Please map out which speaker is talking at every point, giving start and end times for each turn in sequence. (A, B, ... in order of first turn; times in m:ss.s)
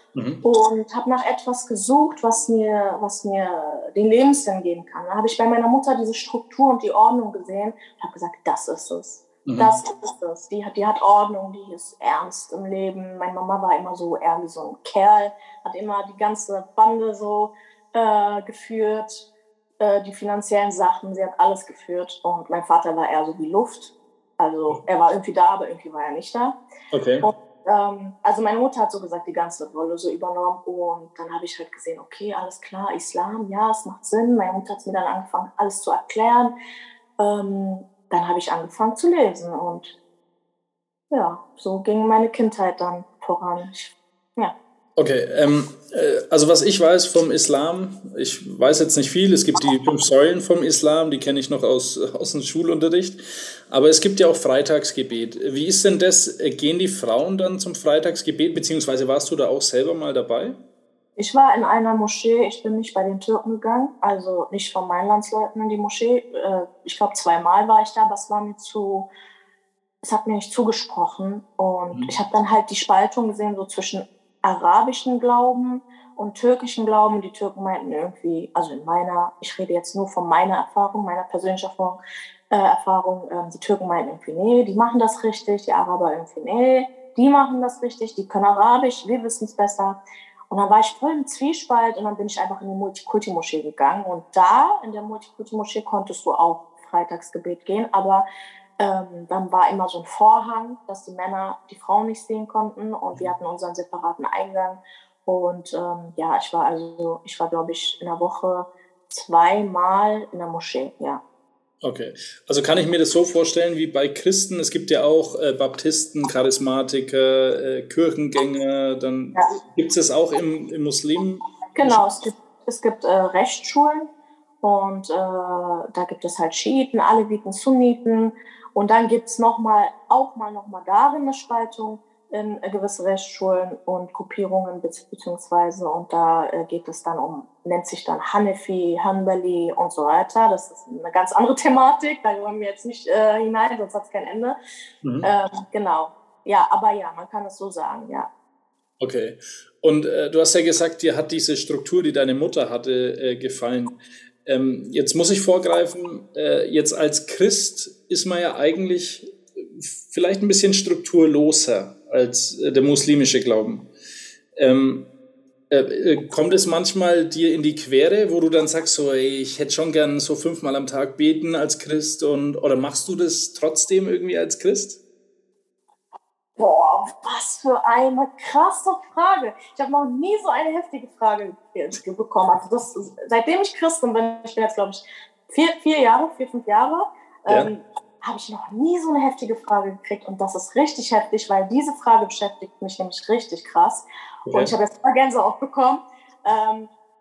0:00.2-0:00.4 A
0:00.4-0:19.3 B
0:09.4-0:09.7 A
0:19.8-0:26.6 B
0:26.9-0:27.3 A
0:27.2-0:36.6 B
0:37.2-0:40.0 B
0:41.1-0:44.6 B
0:45.0-1:00.6 A
1:01.2-1:09.1 B
1:10.0-1:38.3 B
1:38.8-1:51.2 B
1:51.8-2:02.0 A
2:01.8-2:24.6 B
2:25.0-2:25.3 A
2:25.2-2:28.3 B
2:29.0-2:43.9 A
2:44.6-2:45.1 A
2:45.7-2:55.0 A
2:56.6-3:16.9 B
3:14.5-3:14.7 A